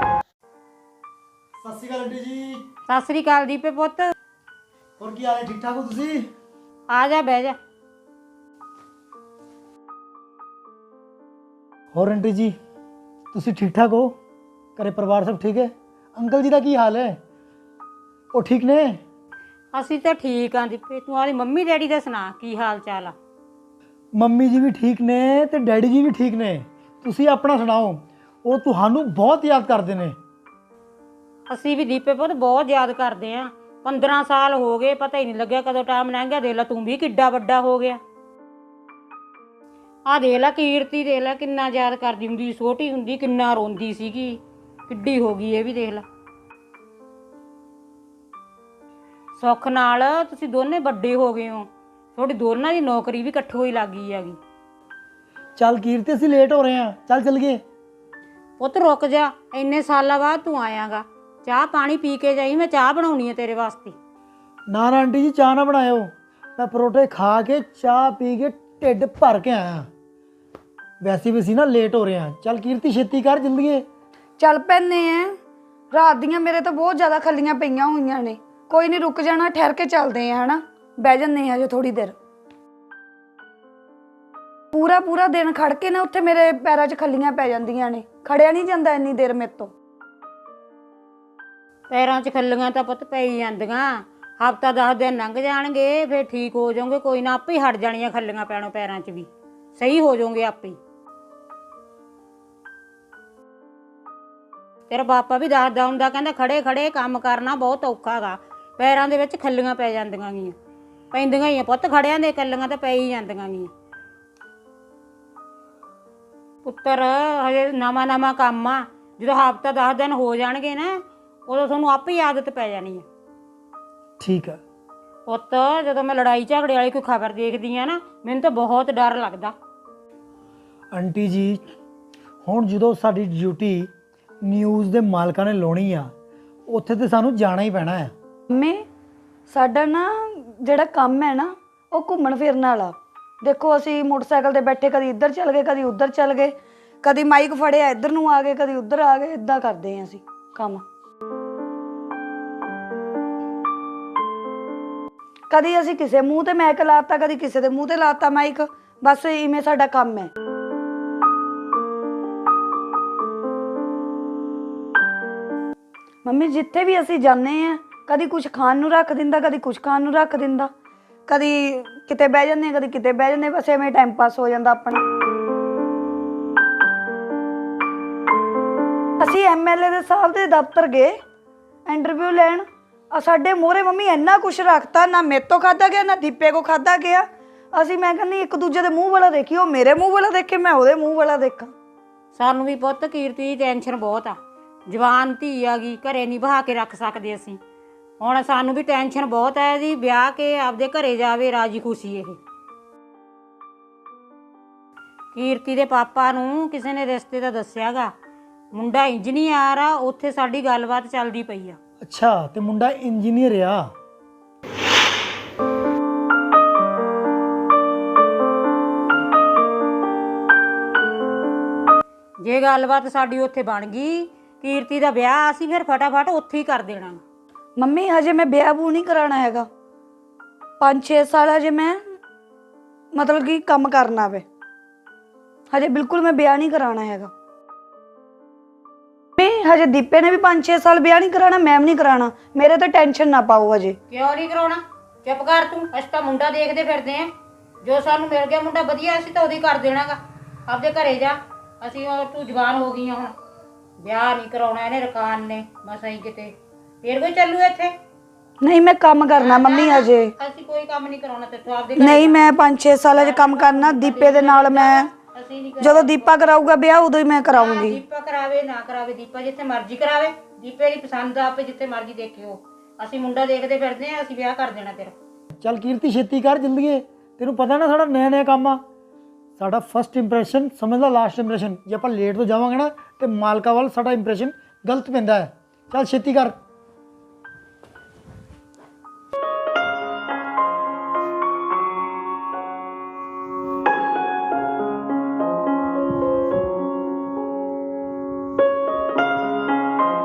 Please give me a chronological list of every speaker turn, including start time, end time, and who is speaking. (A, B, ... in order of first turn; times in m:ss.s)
0:01.6-0:02.6 A
0:02.9-0:04.1 B
0:05.0-0:06.2 A
0:06.9-0:07.6 B
0:11.9-0:12.6 A
0:13.3-0:14.2 A
0:14.8-0:17.2 A
0:18.3-0:19.0 A
0:19.7-0:23.2 B
0:24.2-0:30.2 A
0:31.5-0:38.0 B
0:40.1-0:46.0 B
0:49.4-0:54.4 B
0:55.6-0:57.6 A
0:58.6-1:04.0 B
1:04.7-1:09.9 A
1:11.0-1:13.9 A
1:14.4-1:15.3 C
1:15.9-1:22.2 C
1:24.7-1:29.7 C
1:31.9-1:40.8 B
1:44.9-1:50.6 B
1:51.1-1:53.7 B
1:56.6-2:03.1 B
2:04.2-2:04.6 A
2:05.3-2:09.6 B
2:10.9-2:11.6 A
2:12.4-2:13.9 A
2:14.5-2:16.1 A
2:16.7-2:18.1 A
2:18.5-2:18.8 C
2:19.5-2:30.8 C
2:35.5-2:40.3 C
2:46.2-2:50.7 C
2:51.3-2:55.0 C
2:59.2-3:01.2 C
3:01.9-3:11.7 C
3:12.4-3:17.6 B
3:18.2-3:22.4 B
3:25.3-3:28.1 B
3:28.7-3:31.8 B
3:32.0-3:33.9 A
3:42.4-3:47.2 B
3:47.8-3:49.7 C
3:50.8-3:52.0 C
3:53.1-3:54.4 C
3:55.7-3:57.3 C
3:59.4-4:04.0 C
4:04.1-4:07.3 B
4:07.8-4:13.3 B
4:14.0-4:18.0 B
4:18.6-4:20.3 C
4:19.3-4:22.4 B
4:22.0-4:25.1 C
4:23.2-4:26.5 B
4:25.8-4:28.0 C
4:27.5-4:35.2 B
4:35.6-4:38.8 A
4:39.6-4:46.6 A